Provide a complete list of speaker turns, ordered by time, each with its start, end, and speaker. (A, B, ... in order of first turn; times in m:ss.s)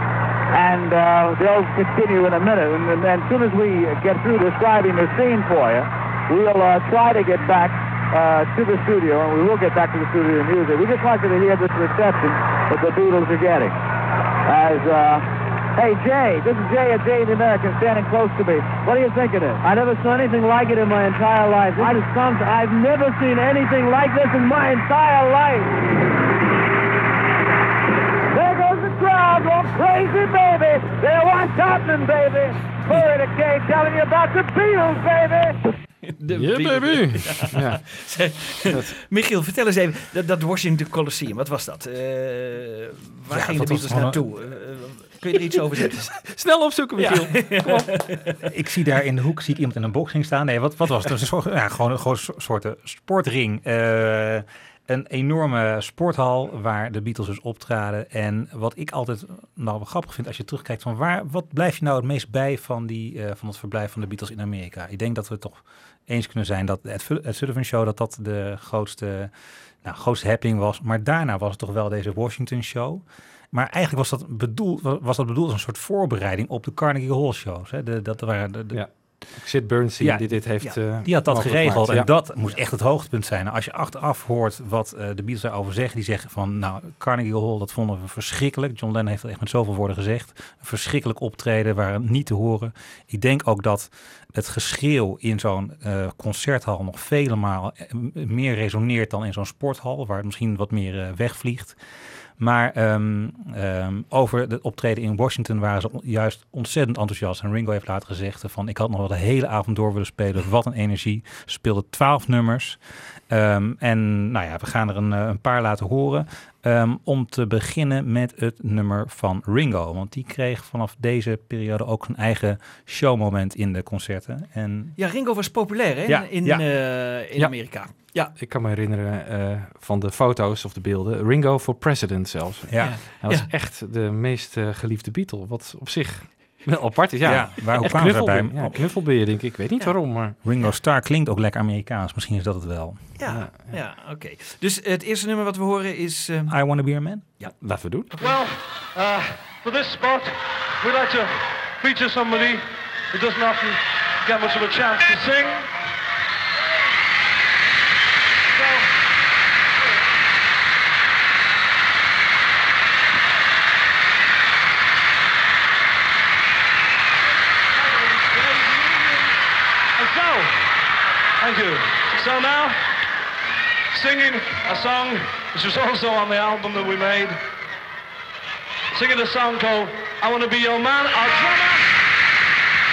0:00.5-0:13.8 A
0:14.4-0:25.7 A
0:28.3-0:35.6 A
0:36.0-0:46.1 B
0:36.3-0:37.8 C
0:38.6-0:38.9 C
0:43.3-0:44.2 D
0:46.1-0:47.9 C
0:47.0-0:48.2 B
0:48.5-1:09.3 D
1:09.8-1:18.8 D
1:18.7-1:22.1 C
1:20.0-1:41.8 D
1:42.4-1:52.8 D
1:53.3-2:04.9 D
2:05.0-2:08.3 B
2:06.1-2:06.6 D
2:08.3-2:20.4 C
2:12.8-2:13.5 B
2:17.2-2:18.8 D
2:20.4-2:23.0 D
2:23.2-2:26.5 B
2:23.3-2:23.7 C
2:26.5-2:27.2 D
2:27.6-2:28.1 C
2:28.2-2:35.7 E
2:38.5-2:38.9 E
2:47.8-2:49.0 E
2:50.0-2:50.5 E
2:51.4-2:52.8 E
2:53.9-2:57.4 E
2:58.9-3:01.9 E